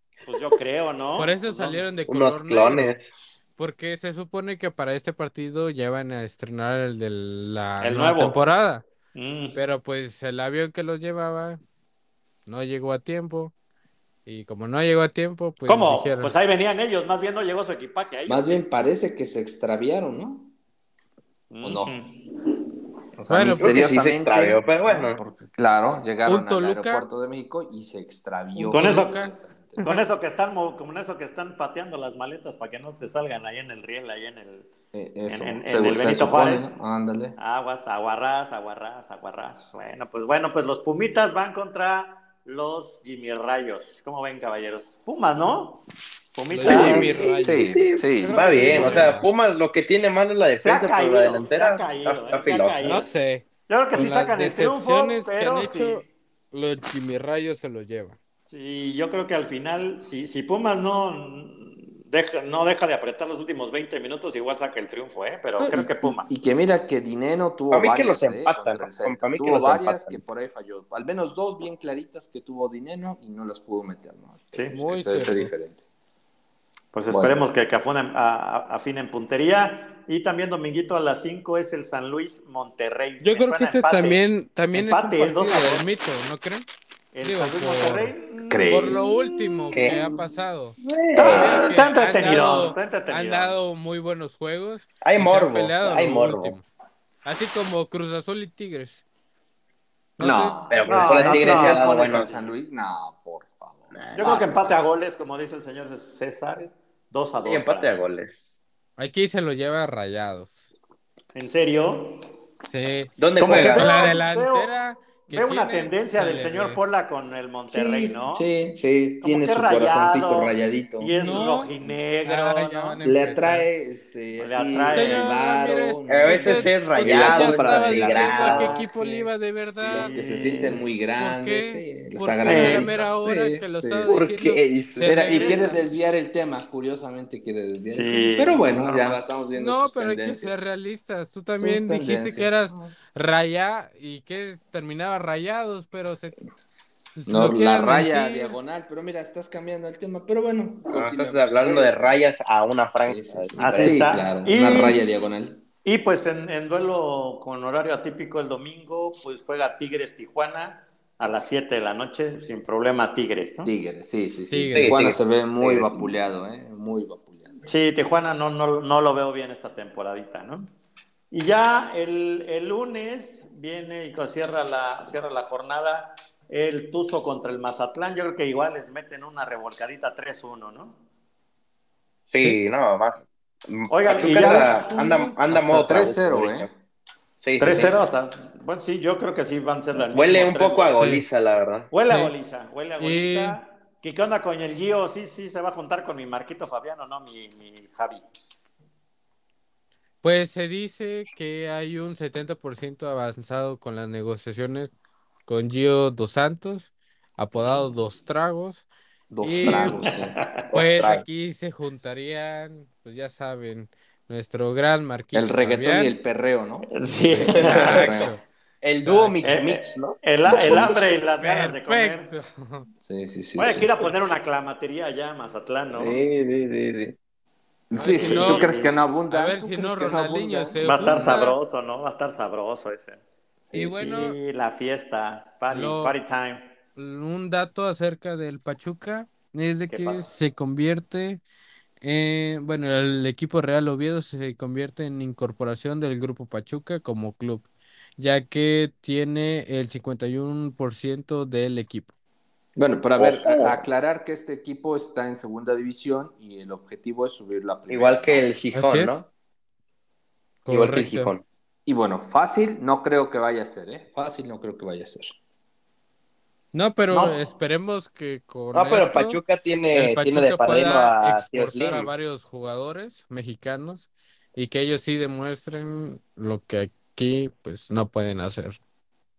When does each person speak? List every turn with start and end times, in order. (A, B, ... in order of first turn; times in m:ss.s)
0:00.3-0:01.8 A
0:01.2-0:02.9 B
0:02.1-0:03.1 C
0:03.6-0:08.8 B
0:07.8-0:08.4 A
0:09.2-0:09.6 A
0:09.6-0:11.6 B
0:12.5-0:13.5 B
0:14.3-0:16.3 B
0:15.7-0:18.6 A
0:18.3-0:20.5 D
0:21.5-0:22.3 A
0:21.6-0:22.0 D
0:23.2-0:29.9 D
0:23.3-0:23.8 B
0:23.6-0:25.2 C
0:26.3-0:27.1 B
0:28.6-0:30.0 B
0:28.7-0:29.2 A
0:29.8-0:34.7 A
0:34.9-0:37.4 D
0:35.3-0:36.8 A
0:37.4-0:45.8 A
0:46.4-0:47.3 A
0:46.5-0:49.3 B
0:46.6-0:49.2 D
0:46.6-0:53.0 C
0:48.2-0:49.2 A
0:50.6-0:53.1 A
0:52.8-0:58.2 B
0:53.7-0:56.1 A
0:58.5-1:06.4 A
1:05.6-1:15.8 D
1:07.7-1:10.2 C
1:14.7-1:15.5 B
1:16.9-1:25.9 A
1:17.1-1:17.4 D
1:23.2-1:26.7 B
1:27.1-1:30.0 A
1:27.2-1:28.2 B
1:28.5-1:29.1 D
1:28.7-1:36.6 B
1:29.7-1:30.0 C
1:30.8-1:31.6 C
1:31.1-1:33.6 A
1:35.0-1:36.6 C
1:37.2-1:39.0 B
1:40.2-1:40.6 B
1:40.2-1:44.5 D
1:40.7-1:42.4 C
1:40.8-1:42.4 A
1:43.9-1:44.5 C
1:44.2-1:48.0 A
1:47.4-1:48.5 C
1:49.0-1:50.7 B
1:51.4-1:52.2 A
1:52.6-1:56.8 B
1:53.2-1:54.0 C
1:53.4-1:54.7 A
1:55.3-1:58.5 A
1:57.7-2:01.5 D
1:59.2-2:03.0 A
2:01.1-2:03.7 B
2:03.0-2:14.3 D
2:04.4-2:05.3 A
2:04.9-2:10.2 B
2:06.1-2:08.8 C
2:09.9-2:10.8 A
2:11.2-2:15.8 B
2:12.4-2:12.9 A
2:14.0-2:15.2 C
2:15.0-2:20.6 D
2:15.3-2:15.8 A
2:17.9-2:19.2 A
2:19.5-2:26.4 B
2:21.6-2:23.0 D
2:27.2-2:28.6 B
2:27.3-2:32.2 D
2:30.9-2:34.1 C
2:33.0-2:35.6 D
2:33.6-2:35.0 A
2:35.8-2:43.7 A
2:43.6-2:47.7 D
2:44.5-2:45.1 B
2:44.8-2:46.0 C
2:47.7-2:50.7 A
2:51.3-3:01.0 A
3:02.3-3:06.7 C
3:03.9-3:04.9 A
3:04.2-3:06.7 D
3:07.4-3:08.0 C
3:07.6-3:11.0 A
3:10.1-3:11.9 C
3:11.0-3:11.3 B
3:11.9-3:18.2 A
3:12.1-3:12.3 B
3:13.0-3:13.6 B
3:20.2-3:24.9 B
3:25.5-3:28.9 B
3:29.3-3:30.4 D
3:29.4-3:30.1 B
3:29.6-3:30.6 A
3:30.7-3:31.2 C
3:30.7-3:36.1 B
3:35.3-3:38.4 D
3:36.9-3:38.1 A
3:37.5-3:38.1 C
3:37.5-3:38.4 B
3:38.8-3:41.0 C
3:39.0-3:39.4 B
3:39.4-3:42.3 A
3:40.5-3:41.0 D
3:41.4-3:42.9 B
3:43.0-3:44.1 D
3:43.6-3:46.2 A
3:45.9-3:47.2 C
3:47.9-3:51.4 D
3:48.0-3:48.7 B
3:48.1-3:49.0 A
3:49.3-3:51.6 B
3:50.8-3:53.2 A
3:53.7-3:54.3 D
3:53.7-3:54.4 B
3:54.0-3:56.6 A
3:55.7-3:56.2 B
3:57.0-4:01.4 B
3:59.9-4:00.3 A
4:02.0-4:07.7 B
4:08.2-4:12.1 B
4:12.8-4:18.5 D
4:13.2-4:13.8 C
4:17.9-4:19.3 C
4:18.7-4:19.2 B
4:20.6-4:21.3 B
4:20.7-4:21.4 C
4:21.9-4:25.4 D
4:26.7-4:29.4 B
4:27.1-4:27.4 C
4:28.7-4:32.1 C
4:29.9-4:38.8 B